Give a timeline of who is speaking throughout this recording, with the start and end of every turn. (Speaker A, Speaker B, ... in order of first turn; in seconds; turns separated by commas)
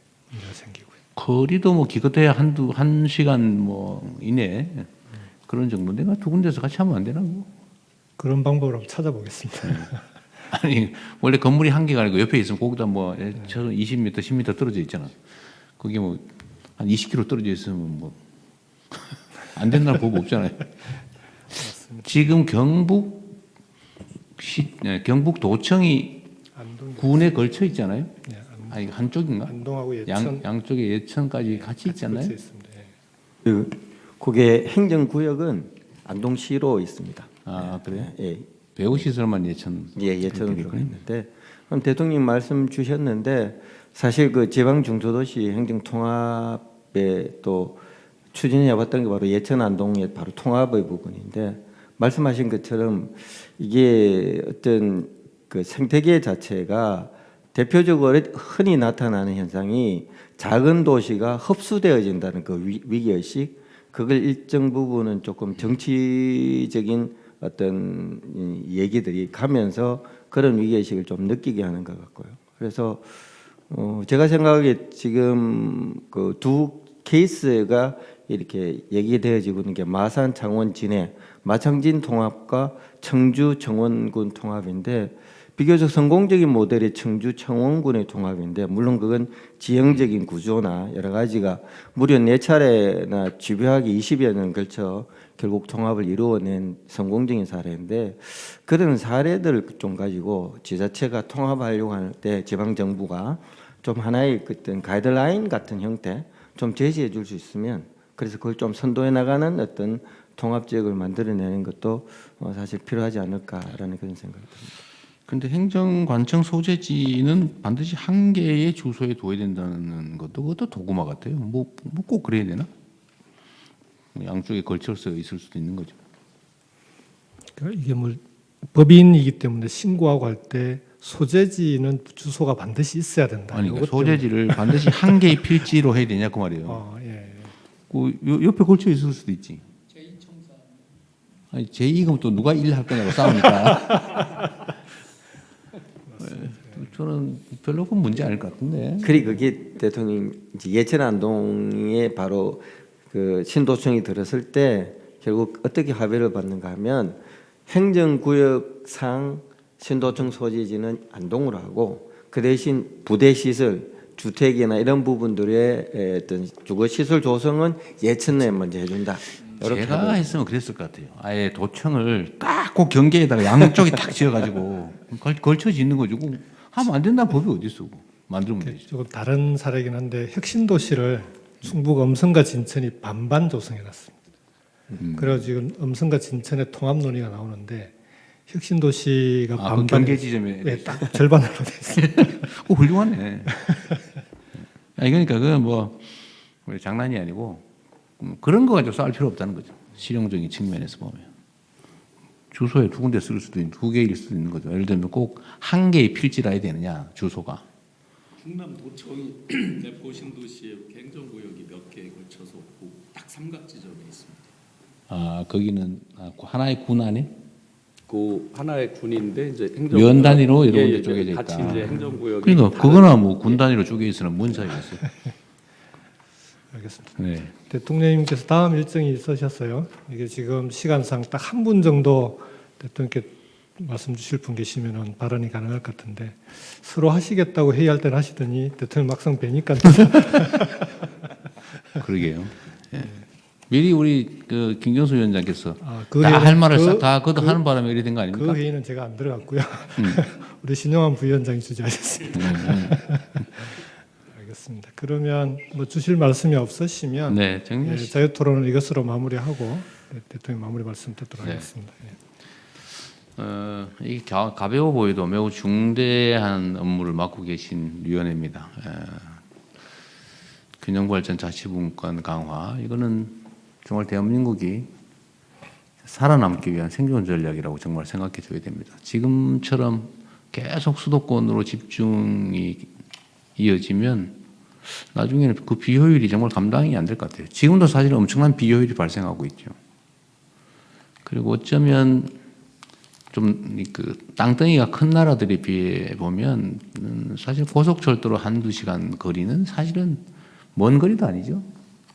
Speaker A: 0.3-1.0, Speaker B: 1.1-4.9, Speaker B: 5.5-7.5, Speaker A: 8.2-10.0, Speaker B: 10.5-15.2, Speaker B: 15.8-18.2, Speaker B: 19.4-20.8, Speaker A: 21.5-22.1, Speaker B: 22.0-23.3, Speaker B: 24.4-26.3, Speaker A: 26.5-27.2, Speaker B: 27.0-28.1, Speaker A: 28.2-28.8, Speaker B: 28.7-32.3, Speaker A: 29.4-30.4, Speaker A: 31.4-32.9, Speaker C: 33.4-38.5, Speaker B: 37.4-38.1, Speaker B: 38.7-41.0, Speaker C: 40.0-47.8, Speaker C: 48.3-73.1, Speaker C: 73.7-114.7, Speaker B: 115.3-122.7, Speaker B: 124.1-126.0, Speaker A: 127.5-135.3, Speaker B: 133.5-136.8, Speaker A: 136.6-137.5, Speaker B: 137.9-139.7, Speaker D: 140.3-140.6, Speaker B: 141.5-144.5, Speaker A: 146.1-146.8, Speaker B: 146.2-149.2, Speaker C: 149.0-170.3, Speaker B: 169.5-178.8, Speaker A: 178.6-184.2, Speaker B: 184.9-185.5, Speaker A: 185.1-187.9, Speaker A: 188.5-192.5, Speaker B: 189.6-191.2, Speaker B: 191.9-193.7, Speaker A: 193.7-194.0, Speaker B: 194.9-197.6, Speaker B: 198.2-201.3, Speaker B: 202.5-207.7, Speaker D: 208.4-214.5, Speaker B: 215.1-217.3, Speaker D: 218.1-223.6, Speaker B: 219.9-225.0, Speaker A: 225.0-225.3, Speaker A: 226.7-241.1, Speaker B: 227.2-227.5, Speaker B: 241.9-248.6, Speaker A: 245.8-247.6, Speaker A: 248.3-253.8, Speaker B: 252.3-253.0, Speaker A: 254.3-262.2, Speaker B: 257.3-258.1, Speaker B: 263.4-269.4, Speaker B: 270.8-274.9, Speaker B: 276.0-282.9, Speaker B: 283.6-289.8, Speaker B: 291.2-292.3, Speaker B: 293.3-300.2, Speaker B: 300.7-301.7